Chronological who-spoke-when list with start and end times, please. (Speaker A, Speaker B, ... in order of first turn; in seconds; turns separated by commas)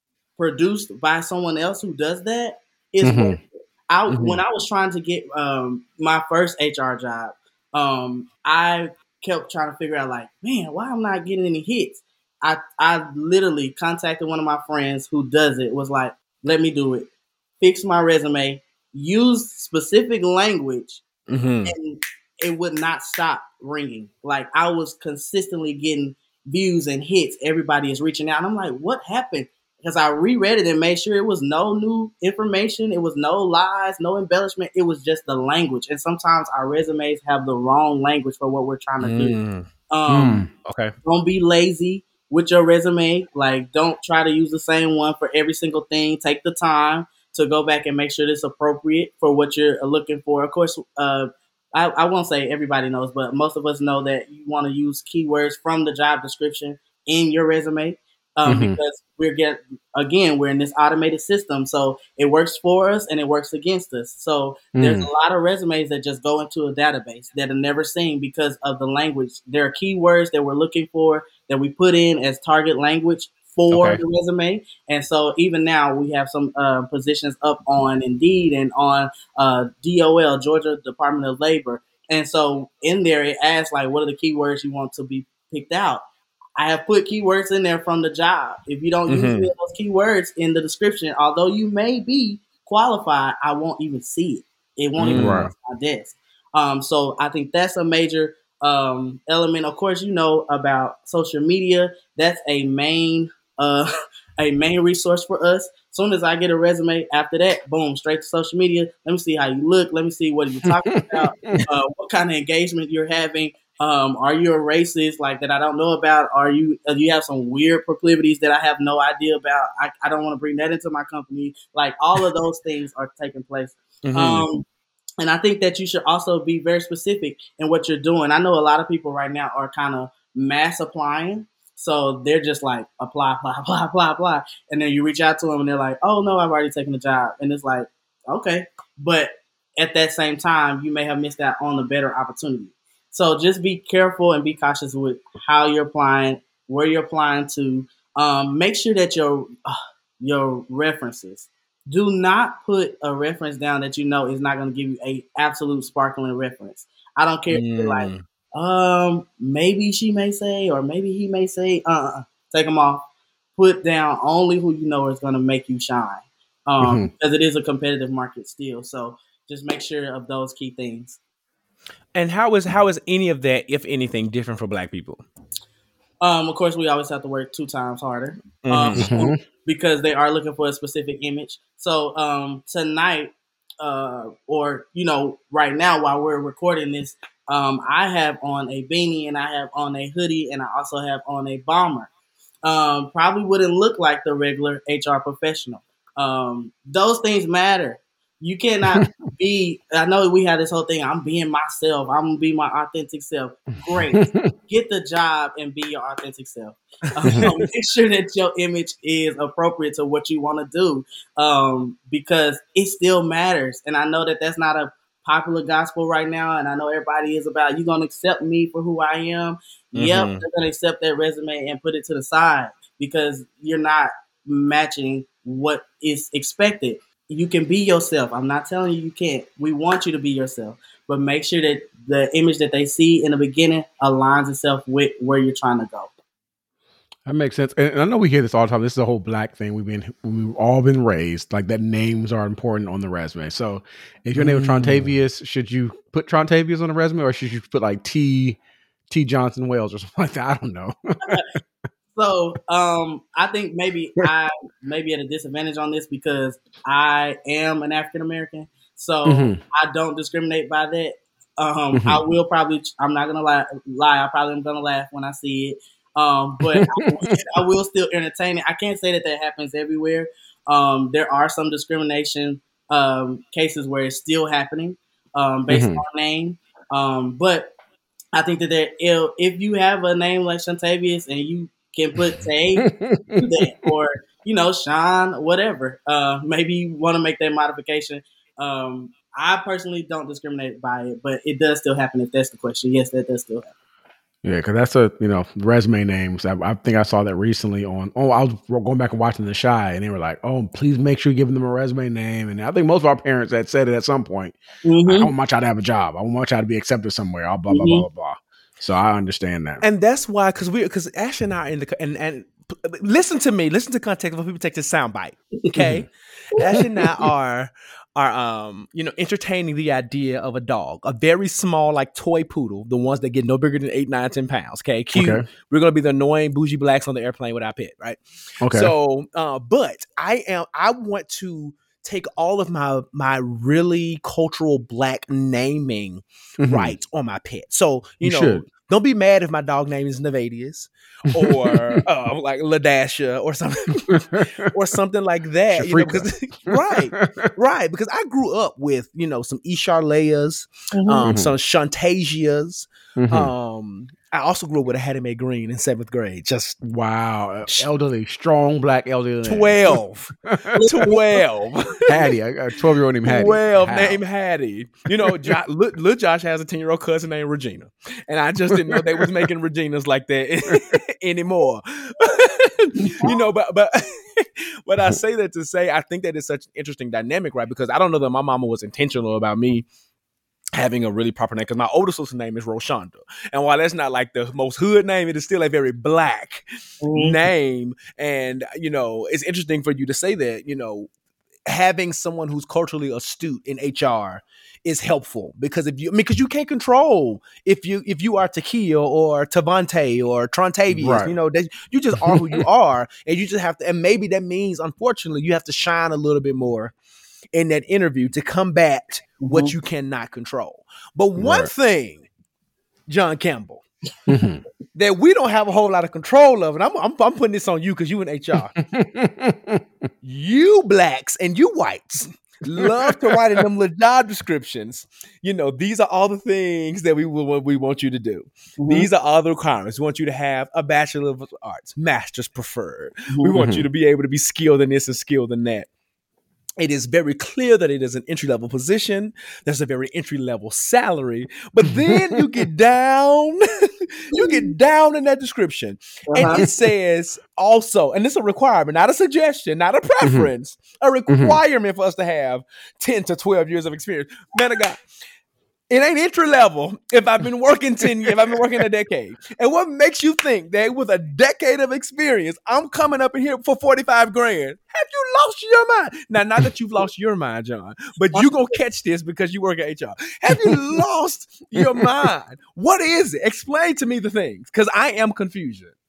Speaker A: 0.4-17.1, Speaker B: 3.0-3.4, Speaker C: 4.1-4.4, Speaker A: 17.6-21.0, Speaker C: 21.3-21.8, Speaker A: 21.7-39.4, Speaker C: 39.0-39.7, Speaker A: 39.9-40.5, Speaker B: 40.1-40.5, Speaker C: 40.6-40.9, Speaker A: 41.0-86.0, Speaker B: 58.5-58.8, Speaker B: 64.8-65.1, Speaker C: 73.7-74.0, Speaker A: 86.6-124.6, Speaker C: 89.1-89.5, Speaker C: 95.0-95.5, Speaker B: 95.1-95.5, Speaker B: 110.7-111.7, Speaker C: 124.0-124.5, Speaker A: 125.2-171.2, Speaker C: 157.5-158.2, Speaker B: 166.8-167.1, Speaker C: 172.2-175.3, Speaker A: 176.2-192.1, Speaker C: 178.6-179.1, Speaker B: 179.0-179.4, Speaker A: 192.6-236.1, Speaker B: 203.9-204.5, Speaker C: 207.2-207.6, Speaker C: 219.9-220.5, Speaker B: 237.3-248.6, Speaker C: 244.3-245.2, Speaker B: 249.1-251.5, Speaker A: 252.2-277.7, Speaker B: 259.2-259.6, Speaker B: 261.9-262.3, Speaker B: 266.6-267.5, Speaker B: 275.7-276.0, Speaker A: 278.3-293.7, Speaker B: 282.8-283.9, Speaker B: 294.4-309.8, Speaker A: 304.9-305.3, Speaker A: 307.7-308.1, Speaker C: 309.8-356.8, Speaker B: 315.8-316.1, Speaker B: 325.1-325.4, Speaker B: 328.6-328.9, Speaker B: 336.6-336.9, Speaker B: 338.2-338.6, Speaker B: 341.3-342.0, Speaker B: 344.1-344.5, Speaker B: 345.7-347.5, Speaker A: 350.9-351.3, Speaker B: 351.2-351.5, Speaker B: 353.2-353.5, Speaker B: 356.8-360.8, Speaker C: 359.4-362.3, Speaker A: 360.8-361.4, Speaker B: 362.1-364.2, Speaker C: 363.2-379.9, Speaker B: 365.2-365.5, Speaker A: 373.2-373.5, Speaker C: 380.7-391.1, Speaker A: 387.0-387.4, Speaker C: 391.7-406.9, Speaker B: 400.9-401.3, Speaker B: 402.2-402.6, Speaker C: 407.5-412.3, Speaker A: 409.4-409.7, Speaker B: 411.4-411.7, Speaker C: 413.1-413.8, Speaker B: 414.3-414.6, Speaker C: 414.9-418.8, Speaker B: 418.8-419.8, Speaker C: 420.2-435.9, Speaker B: 422.8-423.4, Speaker A: 428.8-429.1, Speaker B: 433.5-433.8, Speaker C: 436.8-455.0, Speaker B: 441.9-442.1, Speaker A: 444.4-444.7, Speaker A: 446.3-446.6, Speaker B: 446.4-446.7, Speaker B: 450.2-450.5, Speaker B: 451.3-451.6, Speaker C: 455.9-476.0, Speaker B: 458.1-458.3, Speaker B: 471.8-472.1